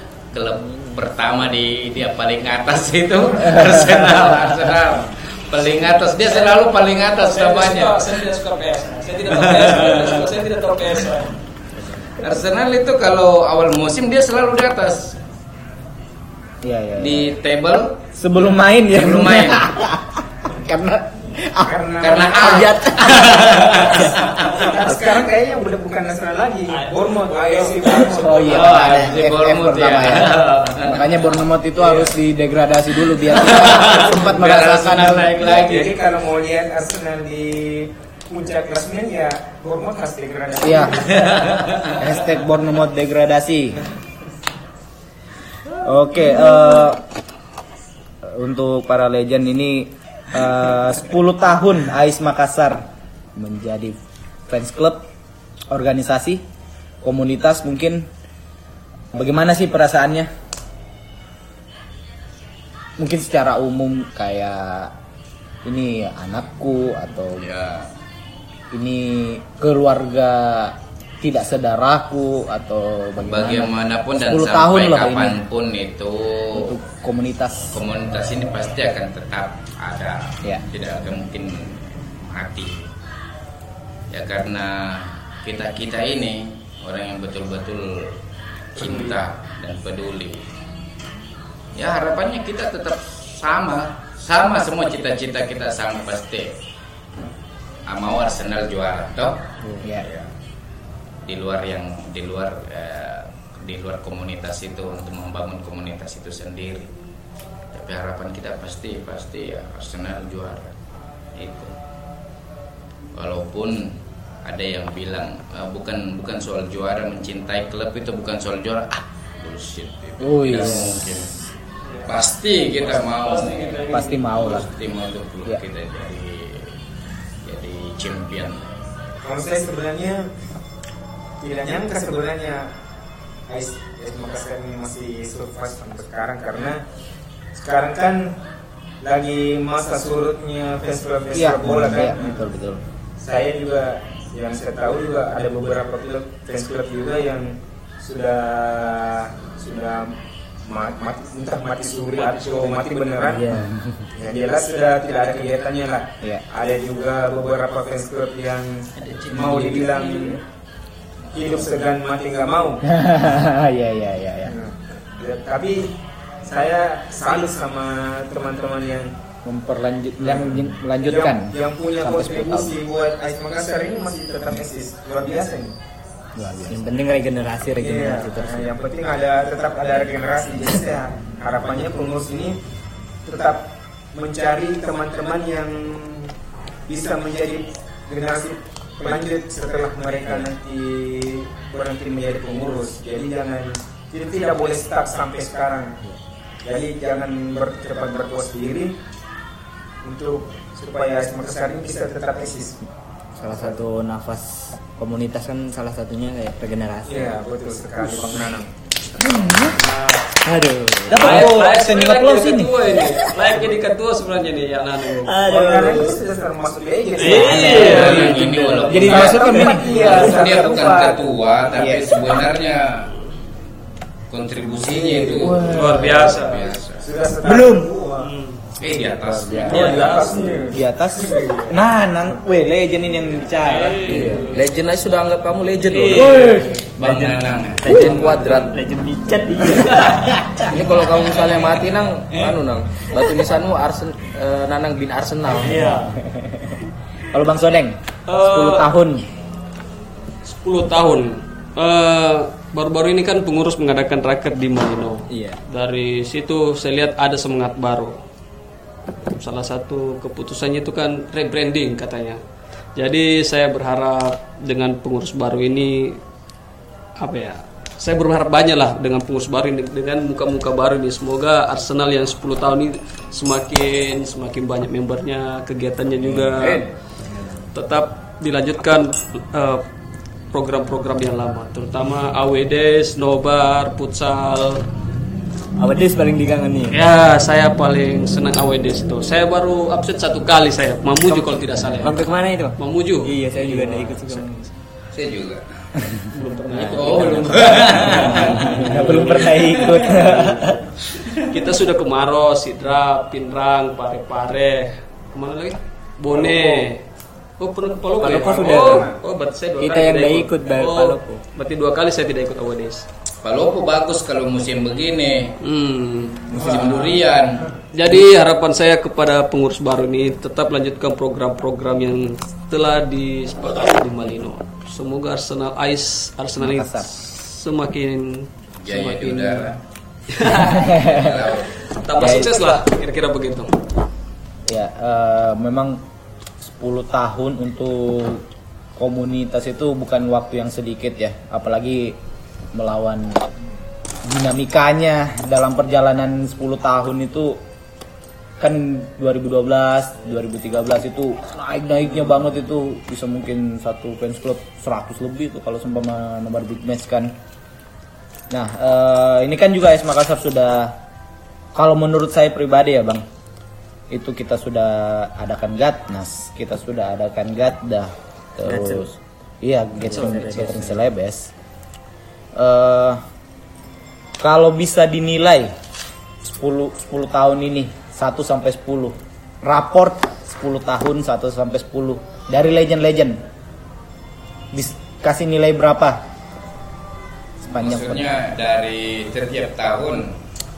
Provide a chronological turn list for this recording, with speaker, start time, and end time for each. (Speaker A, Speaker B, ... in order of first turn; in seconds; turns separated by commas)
Speaker A: 0.3-8.2, Speaker B: 7.2-11.4, Speaker A: 9.5-10.0, Speaker A: 12.2-15.2, Speaker C: 16.6-17.4, Speaker A: 17.0-18.0, Speaker C: 18.1-21.8, Speaker A: 18.9-19.7, Speaker D: 21.6-22.8, Speaker A: 22.0-24.6, Speaker C: 22.4-22.9, Speaker D: 24.4-28.9, Speaker B: 26.7-29.1, Speaker C: 28.1-35.6, Speaker A: 28.4-31.2, Speaker A: 33.2-36.0, Speaker D: 35.4-41.3, Speaker C: 40.6-41.0, Speaker A: 41.2-42.0, Speaker C: 42.0-43.8, Speaker C: 45.8-47.0, Speaker C: 48.2-54.0, Speaker C: 54.5-55.1, Speaker C: 55.7-56.4, Speaker C: 57.0-58.1, Speaker C: 59.1-60.3, Speaker C: 63.0-64.9, Speaker C: 65.6-67.5, Speaker A: 67.3-67.9, Speaker C: 68.7-75.4, Speaker A: 73.2-76.7, Speaker C: 76.5-77.8, Speaker A: 77.7-82.9, Speaker A: 84.1-88.2, Speaker A: 88.7-90.5, Speaker D: 88.8-89.2, Speaker A: 91.7-96.5, Speaker A: 97.9-99.5, Speaker C: 99.8-100.1, Speaker A: 100.0-100.3, Speaker A: 101.2-106.9, Speaker A: 107.7-110.7, Speaker A: 111.3-111.7, Speaker A: 113.1-121.4, Speaker C: 120.2-121.3, Speaker B: 121.8-124.3, Speaker A: 122.0-126.8, Speaker C: 123.9-124.7, Speaker A: 127.4-128.7, Speaker D: 129.2-130.3, Speaker D: 131.4-132.7, Speaker D: 133.5-136.8, Speaker D: 137.5-138.3, Speaker D: 139.0-142.4, Speaker C: 141.3-142.8, Speaker D: 143.2-153.5, Speaker B: 152.1-152.9, Speaker E: 153.2-153.8, Speaker C: 153.5-154.0, Speaker D: 154.1-160.4, Speaker D: 161.3-162.8, Speaker C: 162.8-164.5, Speaker D: 164.4-169.1, Speaker C: 169.4-172.8, Speaker D: 171.0-175.8, Speaker C: 176.3-176.8, Speaker E: 176.7-178.7, Speaker D: 177.8-182.6, Speaker D: 183.2-183.6, Speaker D: 184.1-186.3, Speaker D: 186.9-196.0, Speaker D: 196.6-198.9, Speaker D: 200.0-202.8, Speaker E: 203.3-207.4, Speaker D: 207.1-208.7, Speaker E: 209.2-209.8, Speaker B: 209.7-210.3, Speaker E: 210.4-211.4, Speaker C: 211.1-213.0, Speaker B: 211.1-215.4, Speaker E: 215.2-216.2, Speaker D: 215.4-221.3, Speaker B: 217.2-218.4, Speaker C: 217.3-220.2, Speaker E: 217.3-219.2, Speaker A: 217.7-223.1, Speaker C: 221.8-222.2, Speaker A: 224.3-227.1, Speaker D: 224.9-228.3, Speaker B: 225.6-226.6, Speaker E: 225.7-226.0, Speaker C: 227.4-227.8, Speaker B: 228.2-228.6, Speaker A: 228.8-230.1, Speaker F: 229.4-229.8, Speaker B: 229.5-230.7, Speaker D: 229.6-231.7, Speaker C: 230.7-234.1, Speaker B: 233.5-234.7, Speaker F: 234.0-238.8, Speaker B: 235.9-236.9, Speaker C: 236.3-236.7, Speaker A: 236.9-238.0, Speaker E: 237.8-240.6, Speaker B: 239.7-240.2, Speaker F: 240.6-245.9, Speaker B: 245.6-246.1, Speaker E: 245.7-246.2, Speaker C: 246.3-246.7, Speaker C: 247.3-249.3, Speaker B: 248.3-248.9, Speaker B: 250.4-258.2, Speaker B: 259.2-262.4, Speaker B: 262.9-266.2, Speaker B: 267.2-276.8, Speaker F: 276.6-276.9, Speaker E: 277.3-277.6, Speaker B: 277.7-279.8, Speaker B: 280.5-284.8, Speaker E: 285.8-287.1, Speaker B: 286.9-294.4, Speaker E: 291.3-294.7, Speaker A: 295.1-295.9, Speaker B: 296.3-300.1, Speaker E: 296.4-300.8, Speaker A: 297.2-300.1, Speaker C: 298.7-300.7, Speaker B: 301.1-307.0, Speaker B: 307.6-313.0, Speaker E: 308.2-309.1, Speaker D: 308.2-309.1, Speaker E: 309.8-311.4, Speaker A: 313.4-315.6, Speaker B: 315.6-317.1, Speaker A: 316.5-317.6, Speaker D: 316.5-317.1, Speaker B: 317.9-329.7, Speaker C: 326.6-327.1, Speaker A: 328.8-329.8, Speaker B: 330.3-331.0, Speaker A: 330.6-332.6, Speaker C: 330.8-331.4, Speaker B: 331.9-333.8, Speaker C: 332.2-332.5, Speaker C: 334.6-336.0, Speaker C: 336.6-338.4, Speaker C: 338.9-342.2, Speaker C: 342.7-343.4, Speaker C: 344.2-347.6, Speaker C: 348.6-357.3, Speaker C: 358.5-361.0, Speaker C: 361.7-363.2, Speaker C: 364.1-371.5, Speaker E: 368.6-369.1, Speaker E: 370.0-371.0, Speaker C: 372.5-373.2, Speaker C: 374.4-375.7, Speaker C: 376.4-383.4, Speaker C: 384.7-386.2, Speaker C: 387.6-388.3, Speaker A: 387.7-390.4